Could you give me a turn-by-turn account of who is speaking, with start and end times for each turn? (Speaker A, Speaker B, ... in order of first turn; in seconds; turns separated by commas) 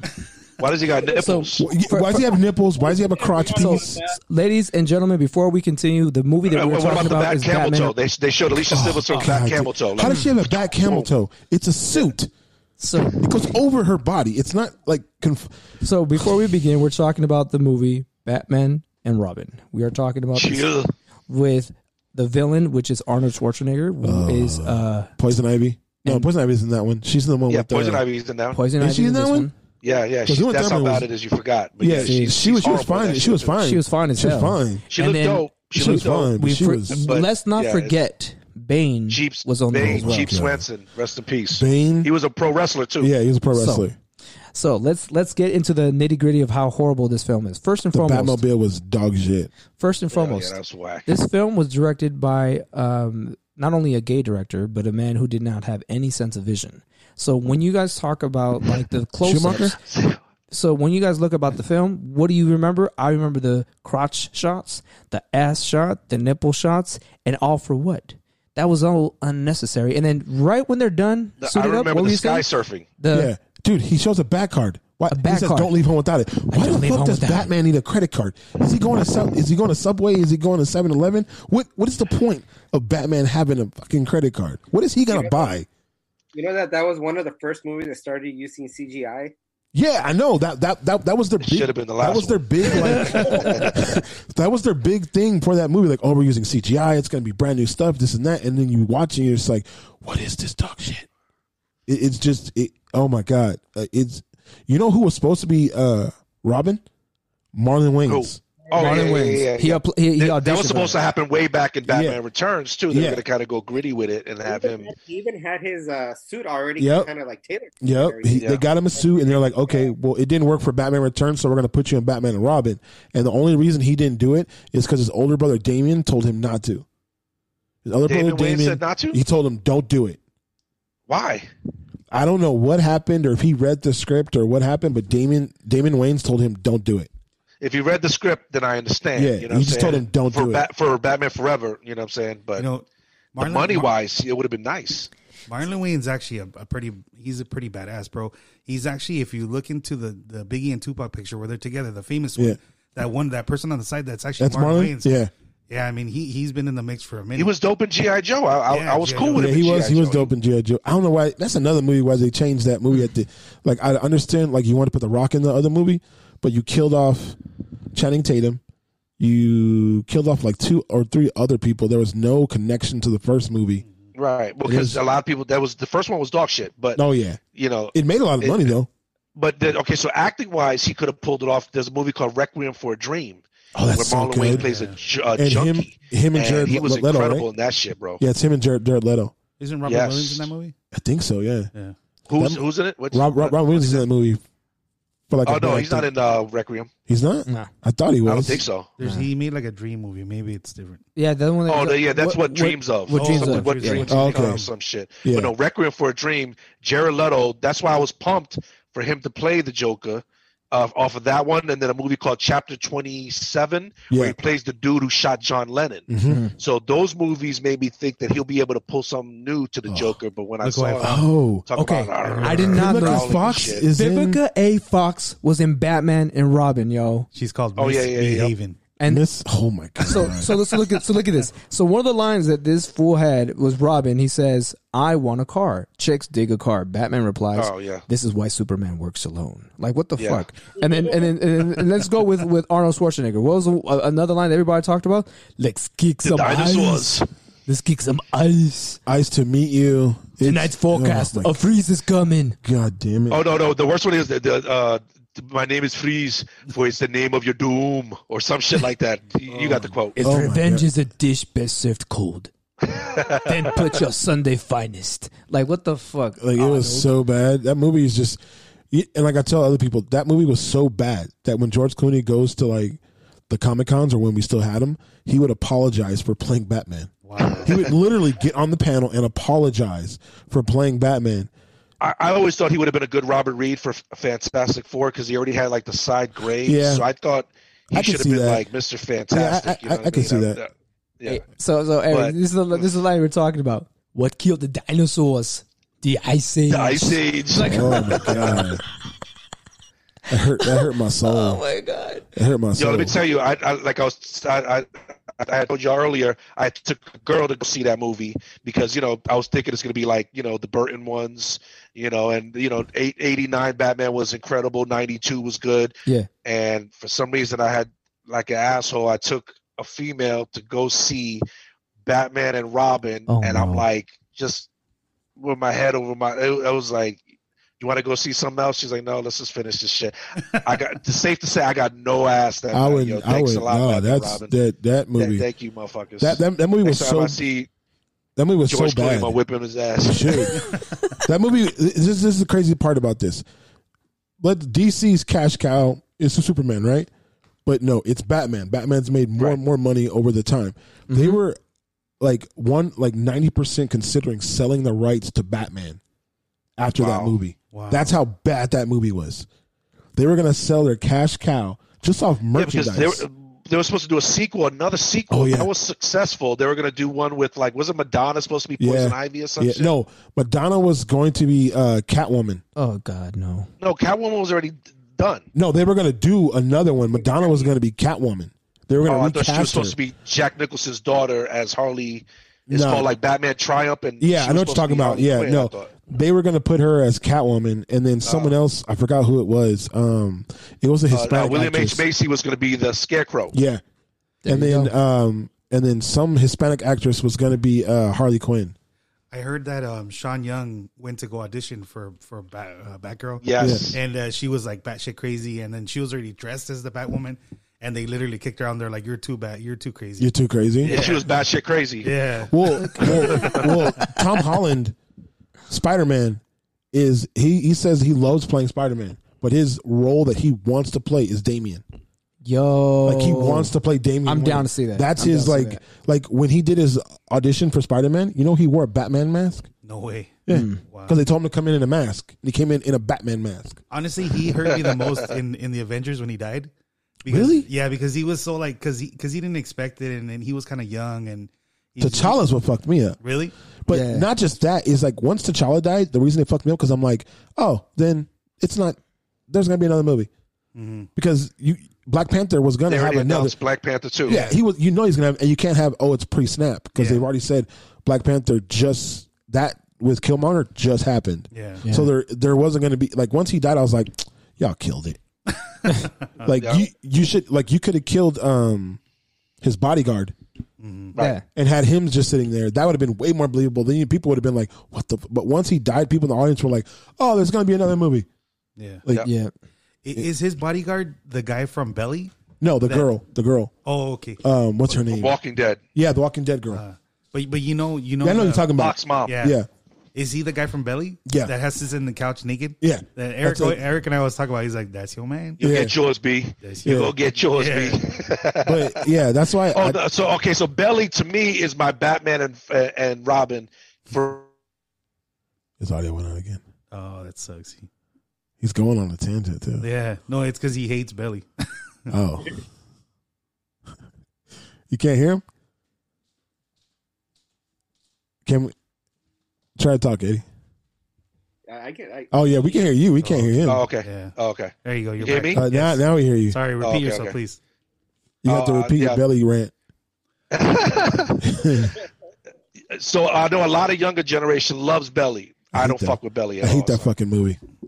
Speaker A: 0.6-1.7, Speaker B: 1.1-2.3, Speaker C: 1.6-4.1, Speaker D: 3.1-3.9, Speaker B: 3.5-7.9, Speaker A: 6.5-11.1, Speaker C: 8.7-12.3, Speaker B: 10.0-10.3, Speaker B: 12.8-13.3, Speaker C: 13.1-15.6, Speaker B: 15.8-20.7, Speaker A: 20.4-20.9, Speaker B: 21.3-25.1, Speaker C: 24.0-28.0, Speaker A: 27.5-28.6, Speaker B: 28.5-29.5, Speaker C: 28.8-29.5, Speaker A: 29.8-33.6, Speaker C: 30.3-31.1, Speaker C: 31.8-34.9, Speaker B: 32.0-32.4, Speaker B: 33.6-40.4, Speaker A: 34.9-36.4, Speaker C: 35.8-37.0, Speaker A: 36.9-38.0, Speaker A: 39.1-43.1, Speaker C: 39.8-40.6, Speaker C: 41.5-42.1, Speaker C: 43.0-44.0, Speaker B: 43.5-43.9, Speaker B: 44.5-48.4, Speaker C: 47.9-49.5, Speaker B: 49.8-50.5, Speaker A: 50.1-51.1, Speaker B: 51.1-59.8, Speaker C: 59.2-59.8, Speaker A: 59.8-60.2, Speaker B: 60.5-72.5, Speaker A: 71.4-72.9, Speaker B: 73.0-73.3, Speaker C: 73.1-85.7, Speaker B: 75.1-75.8, Speaker B: 76.5-77.5, Speaker D: 85.1-85.5, Speaker D: 86.3-89.3, Speaker C: 89.7-101.1, Speaker A: 91.4-93.7, Speaker C: 101.9-106.8, Speaker C: 107.5-108.4, Speaker A: 108.1-114.9, Speaker B: 108.7-111.0, Speaker D: 108.8-109.1, Speaker C: 111.9-112.2, Speaker C: 112.9-113.2, Speaker D: 114.5-119.9, Speaker C: 116.8-117.1, Speaker C: 117.8-126.8, Speaker A: 118.3-118.6, Speaker C: 127.8-130.2, Speaker A: 128.1-129.2, Speaker A: 131.1-131.5, Speaker C: 132.1-137.1, Speaker A: 137.6-142.7, Speaker C: 139.2-140.7, Speaker E: 142.6-143.9, Speaker A: 143.4-145.1, Speaker E: 145.5-155.2, Speaker C: 154.4-155.3, Speaker E: 155.7-157.5, Speaker A: 157.3-160.3, Speaker E: 158.7-159.6, Speaker C: 159.3-167.4, Speaker C: 167.9-168.6, Speaker C: 169.2-173.8, Speaker A: 174.2-177.0, Speaker C: 174.7-175.0, Speaker C: 177.0-177.4, Speaker A: 177.6-178.8, Speaker C: 177.9-178.9, Speaker A: 179.4-188.2, Speaker C: 183.8-184.7, Speaker E: 184.5-185.0, Speaker C: 185.4-187.5, Speaker C: 188.2-189.3, Speaker E: 189.6-190.8, Speaker A: 189.9-190.5, Speaker C: 190.9-191.7, Speaker A: 192.3-194.1, Speaker C: 192.4-194.4, Speaker C: 195.3-196.1, Speaker A: 195.4-196.9, Speaker C: 197.1-198.6, Speaker A: 198.3-198.9, Speaker E: 199.0-201.0, Speaker B: 199.0-199.3, Speaker B: 201.2-204.1, Speaker A: 201.7-223.9, Speaker E: 203.1-204.7, Speaker C: 204.1-204.7, Speaker C: 205.2-205.5, Speaker C: 214.1-214.4, Speaker C: 216.1-216.4, Speaker B: 216.3-216.5, Speaker C: 219.9-220.1, Speaker E: 220.6-221.2, Speaker C: 221.0-221.7, Speaker B: 221.8-223.4, Speaker E: 222.2-222.8, Speaker C: 222.5-224.4, Speaker B: 223.9-227.3, Speaker E: 227.3-228.8, Speaker A: 227.8-228.5, Speaker B: 229.0-229.3, Speaker C: 229.0-230.5, Speaker B: 230.0-249.0, Speaker A: 237.6-238.0, Speaker A: 240.2-240.5, Speaker A: 246.2-247.3, Speaker C: 249.1-251.6, Speaker B: 250.4-252.6, Speaker C: 252.6-253.4, Speaker A: 253.3-260.2, Speaker B: 260.2-262.5, Speaker C: 260.2-260.9, Speaker A: 262.8-263.8, Speaker B: 263.2-267.1, Speaker C: 266.4-281.5, Speaker E: 277.2-277.9, Speaker A: 282.0-291.4, Speaker C: 286.6-287.1, Speaker C: 287.9-288.7, Speaker C: 289.3-290.6, Speaker B: 291.3-298.7, Speaker A: 292.1-292.9, Speaker A: 296.7-298.7, Speaker C: 297.7-298.8, Speaker C: 300.3-301.6, Speaker B: 300.6-302.3, Speaker C: 302.3-303.2, Speaker A: 302.8-321.4, Speaker A: 322.1-324.7, Speaker B: 323.3-323.9, Speaker A: 325.4-327.2, Speaker A: 327.8-334.6, Speaker E: 330.5-330.8, Speaker C: 332.7-335.5, Speaker A: 335.1-337.7, Speaker C: 336.2-337.4, Speaker C: 338.4-339.4, Speaker A: 338.7-340.5, Speaker C: 340.0-340.6, Speaker C: 341.2-343.4, Speaker C: 344.4-347.1, Speaker C: 347.6-351.6, Speaker B: 351.1-351.4, Speaker C: 352.2-356.0, Speaker C: 356.8-359.5, Speaker A: 357.0-357.4, Speaker E: 357.7-358.1, Speaker C: 360.1-363.2, Speaker A: 362.5-369.9, Speaker C: 365.3-365.7, Speaker C: 368.8-372.6, Speaker B: 372.8-373.7, Speaker A: 373.8-375.5, Speaker C: 375.5-379.9, Speaker A: 377.4-377.7, Speaker A: 379.1-385.9, Speaker C: 382.7-383.1, Speaker C: 384.2-392.0, Speaker A: 388.2-388.5, Speaker A: 391.1-393.6, Speaker C: 393.5-393.8, Speaker B: 394.4-394.9, Speaker C: 394.5-398.8, Speaker E: 399.3-410.3, Speaker A: 403.4-404.0, Speaker C: 410.2-411.0, Speaker E: 410.9-411.3, Speaker A: 410.9-412.1, Speaker E: 412.0-413.6, Speaker C: 412.5-415.0, Speaker A: 413.3-413.6, Speaker C: 415.7-416.4, Speaker C: 416.9-421.8, Speaker B: 422.4-423.7, Speaker C: 423.1-429.7, Speaker B: 424.3-425.8, Speaker E: 429.8-431.2, Speaker C: 430.5-433.8, Speaker B: 430.5-430.8, Speaker E: 433.9-436.7, Speaker E: 437.2-442.4, Speaker C: 437.3-437.7, Speaker C: 442.0-443.2, Speaker E: 443.2-443.5, Speaker C: 443.9-450.3, Speaker B: 443.9-444.3, Speaker E: 450.8-451.1, Speaker C: 451.2-453.6, Speaker A: 452.9-454.4, Speaker E: 454.3-454.6, Speaker C: 454.3-465.2, Speaker E: 457.0-457.2, Speaker E: 461.5-461.9, Speaker B: 461.9-462.1, Speaker C: 466.4-469.0, Speaker A: 466.5-466.9, Speaker C: 469.6-470.4, Speaker E: 470.8-471.2, Speaker B: 471.2-471.4, Speaker C: 471.5-478.3, Speaker E: 478.8-479.0, Speaker B: 479.2-479.5, Speaker E: 480.0-483.1, Speaker C: 482.6-483.7, Speaker E: 483.8-484.4, Speaker C: 484.4-485.4, Speaker A: 485.0-485.8, Speaker C: 485.9-486.8, Speaker E: 486.7-489.6, Speaker C: 488.2-489.7, Speaker A: 488.8-489.4, Speaker E: 490.1-495.6, Speaker C: 491.2-491.6, Speaker C: 492.8-493.8, Speaker C: 495.6-495.9, Speaker A: 495.6-499.1, Speaker E: 496.6-498.1, Speaker C: 496.9-497.1, Speaker C: 498.7-500.0, Speaker A: 499.7-504.5, Speaker C: 505.8-506.6, Speaker E: 506.9-507.9, Speaker C: 508.6-509.9, Speaker E: 509.8-511.5, Speaker C: 512.1-512.6, Speaker C: 514.9-515.4, Speaker C: 518.5-518.7, Speaker C: 519.8-520.5, Speaker D: 521.7-523.0, Speaker C: 522.3-523.9, Speaker E: 523.2-527.6, Speaker A: 523.6-525.6, Speaker C: 525.5-526.6, Speaker A: 526.8-527.4, Speaker C: 528.4-529.7, Speaker A: 528.5-529.2, Speaker A: 530.5-531.5, Speaker C: 531.4-532.0, Speaker A: 532.9-537.1, Speaker C: 535.7-537.6